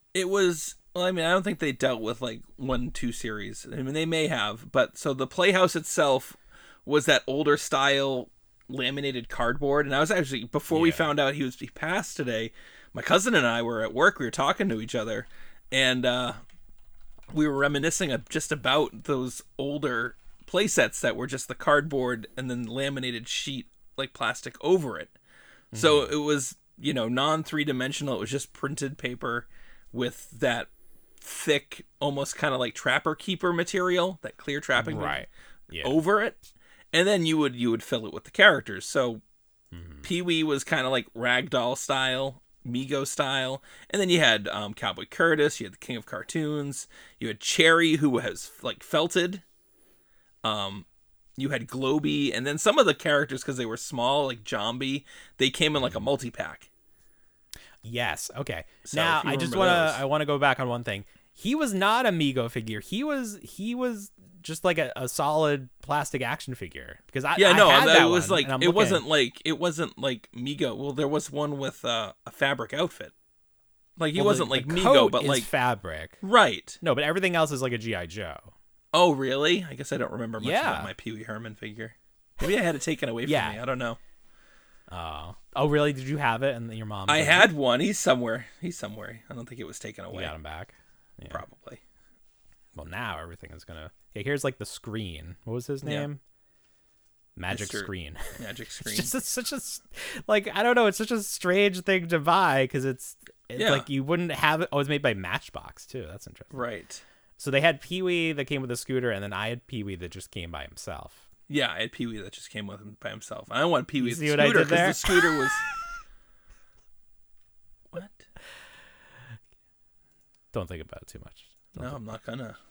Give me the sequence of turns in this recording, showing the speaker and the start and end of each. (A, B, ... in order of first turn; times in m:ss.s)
0:00.1-0:16.4 A
0:10.7-0:11.1 B
0:17.3-0:25.1 A
0:25.7-0:26.1 B
0:25.7-0:30.7 A
0:31.2-0:35.2 A
0:34.8-0:36.0 B
0:35.8-0:36.4 A
0:36.9-0:39.2 A
0:39.7-0:40.1 B
0:40.0-0:49.4 A
0:50.4-0:50.9 A
0:51.4-0:56.7 A
0:57.8-1:09.0 B
0:58.8-1:00.0 A
1:07.4-1:13.1 A
1:14.0-1:15.5 A
1:14.2-1:16.2 B
1:16.2-1:16.8 A
1:16.8-1:18.5 B
1:18.9-1:24.0 A
1:20.4-1:20.9 B
1:23.2-1:23.6 B
1:24.9-1:27.5 B
1:27.1-1:30.3 A
1:30.1-1:31.4 B
1:31.3-1:31.8 A
1:32.8-1:36.2 B
1:35.8-1:36.1 A
1:37.4-1:46.6 B
1:37.5-1:39.2 A
1:43.6-1:43.9 A
1:46.5-1:47.0 A
1:47.4-1:51.2 B
1:51.5-1:55.6 A
1:54.0-1:55.2 B
1:57.9-1:58.2 A
2:00.5-2:02.0 B
2:01.8-2:02.6 A